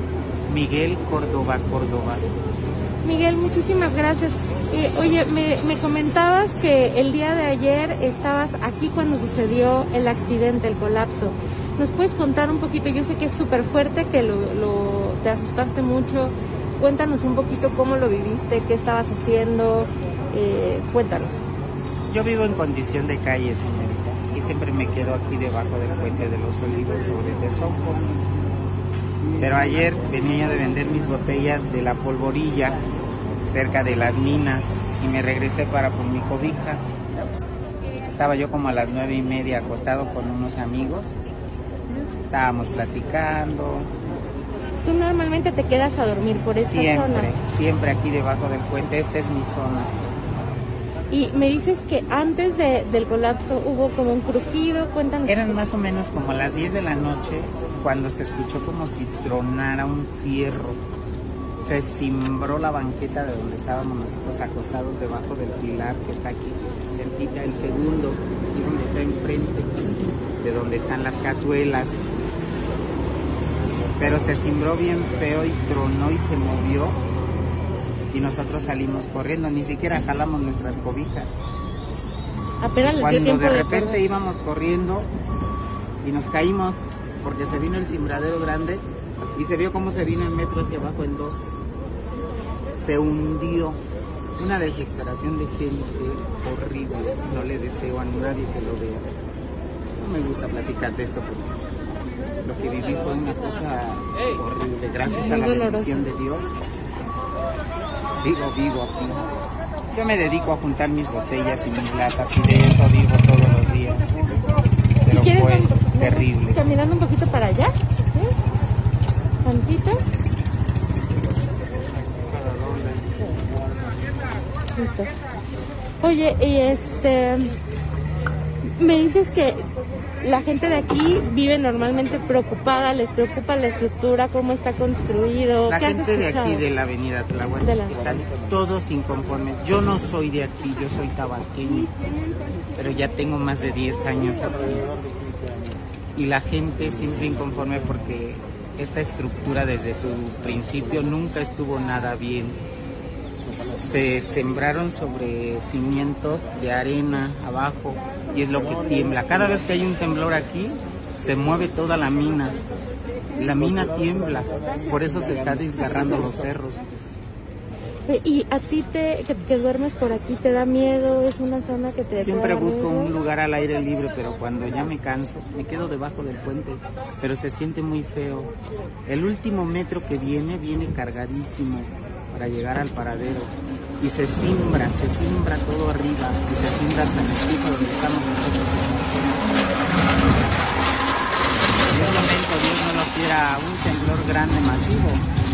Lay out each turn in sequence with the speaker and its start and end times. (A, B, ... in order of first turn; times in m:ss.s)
0:00.5-0:02.2 A
0:03.0-0:21.4 B
0:22.1-0:28.0 A
0:29.4-0:32.8 A
0:33.4-0:36.8 A
0:38.0-0:41.2 A
0:42.3-0:43.9 A
0:44.8-0:47.3 B
0:46.5-0:49.9 A
0:51.1-0:55.6 B
0:55.2-1:00.8 A
1:01.6-1:09.8 A
1:10.4-1:12.0 A
1:14.0-1:17.0 A
1:18.1-1:21.4 A
1:22.6-1:24.0 B
1:22.8-1:25.1 A
1:26.0-1:28.8 A
1:29.3-1:31.6 A
1:32.8-1:33.8 A
1:34.4-1:39.1 A
1:40.0-1:41.6 A
1:42.4-1:46.6 A
1:45.0-1:46.1 B
1:48.1-1:49.3 A
1:49.9-1:54.4 A
1:55.0-1:56.8 A
1:55.1-1:58.4 B
1:59.4-2:00.0 B
2:04.7-2:05.1 B
2:06.0-2:07.6 B
2:08.8-2:09.7 B
2:10.2-2:16.6 B
2:15.6-2:21.9 A
2:17.6-2:18.2 B
2:22.8-2:24.9 A
2:26.2-2:32.6 A
2:33.7-2:42.6 A
2:43.3-2:46.8 A
2:48.1-2:53.1 B
2:52.2-2:58.5 A
2:59.1-3:09.3 A
3:11.9-3:15.3 A